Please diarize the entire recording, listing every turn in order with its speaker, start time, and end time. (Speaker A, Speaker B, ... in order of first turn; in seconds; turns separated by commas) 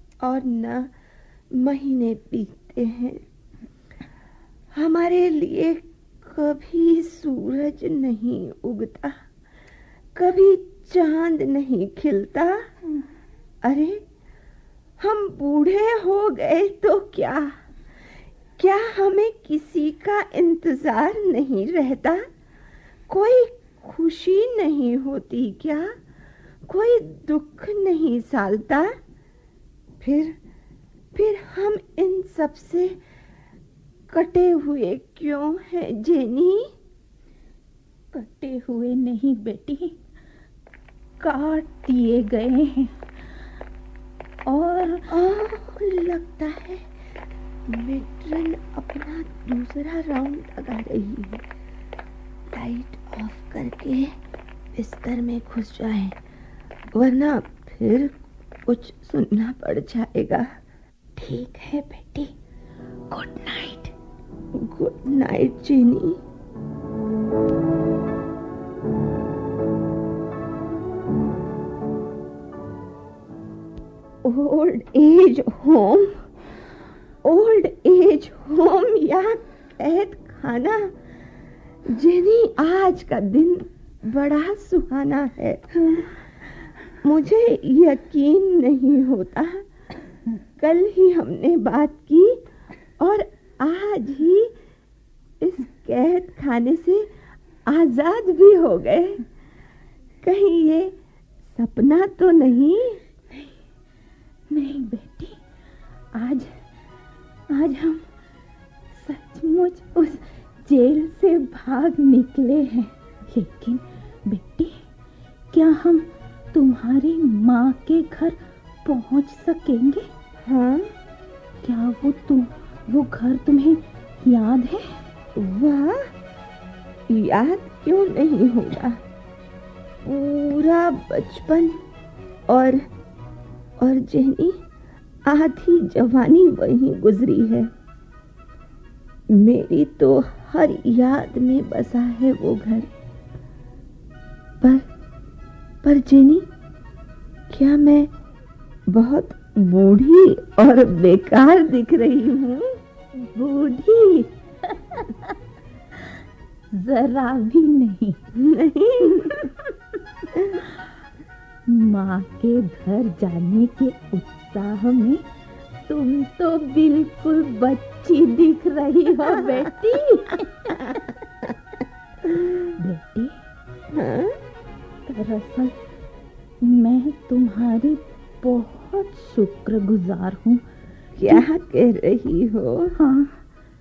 Speaker A: 0.2-0.9, Speaker A: 1.5-3.2, Speaker A: 4.7-9.2, Speaker A: 10.1-12.7, Speaker A: 13.6-14.0, Speaker A: 15.0-17.6, Speaker A: 18.6-22.3, Speaker A: 23.1-25.9, Speaker A: 26.7-29.0, Speaker A: 30.0-30.4, Speaker A: 31.1-33.0, Speaker A: 34.1-36.7, Speaker B: 38.1-39.9, Speaker B: 41.2-43.2, Speaker B: 44.5-45.1, Speaker A: 45.1-46.9, Speaker A: 47.7-51.4, Speaker A: 52.5-54.1, Speaker A: 54.7-56.2, Speaker A: 56.9-60.6, Speaker B: 61.2-62.3, Speaker B: 63.1-63.9, Speaker A: 64.5-66.2, Speaker A: 74.2-76.2, Speaker A: 77.2-80.9, Speaker A: 81.8-86.1, Speaker A: 87.0-89.6, Speaker A: 90.6-92.4, Speaker A: 93.0-94.5, Speaker A: 95.4-97.1, Speaker A: 97.7-99.2, Speaker A: 100.2-100.9, Speaker A: 101.5-103.0, Speaker B: 103.3-103.6, Speaker B: 104.5-105.4, Speaker B: 106.2-106.6, Speaker B: 107.5-108.1, Speaker B: 108.9-114.8, Speaker B: 115.5-120.1, Speaker A: 120.4-120.9, Speaker B: 121.6-125.0, Speaker A: 125.4-126.1, Speaker A: 127.1-129.0, Speaker A: 130.0-131.8, Speaker A: 132.5-132.8, Speaker A: 133.8-134.6, Speaker A: 135.2-137.7, Speaker A: 139.3-142.9, Speaker A: 144.6-144.9, Speaker A: 145.8-146.5, Speaker A: 147.5-148.1, Speaker A: 148.9-152.8, Speaker B: 153.2-155.3, Speaker B: 156.7-158.2, Speaker A: 158.3-159.5, Speaker B: 159.2-159.7, Speaker A: 160.3-160.7, Speaker B: 161.7-165.2, Speaker B: 165.9-171.0, Speaker A: 172.3-172.6, Speaker B: 172.8-173.3, Speaker A: 173.9-174.4, Speaker B: 175.1-175.7, Speaker B: 176.6-180.6, Speaker A: 181.2-182.9, Speaker B: 182.9-183.4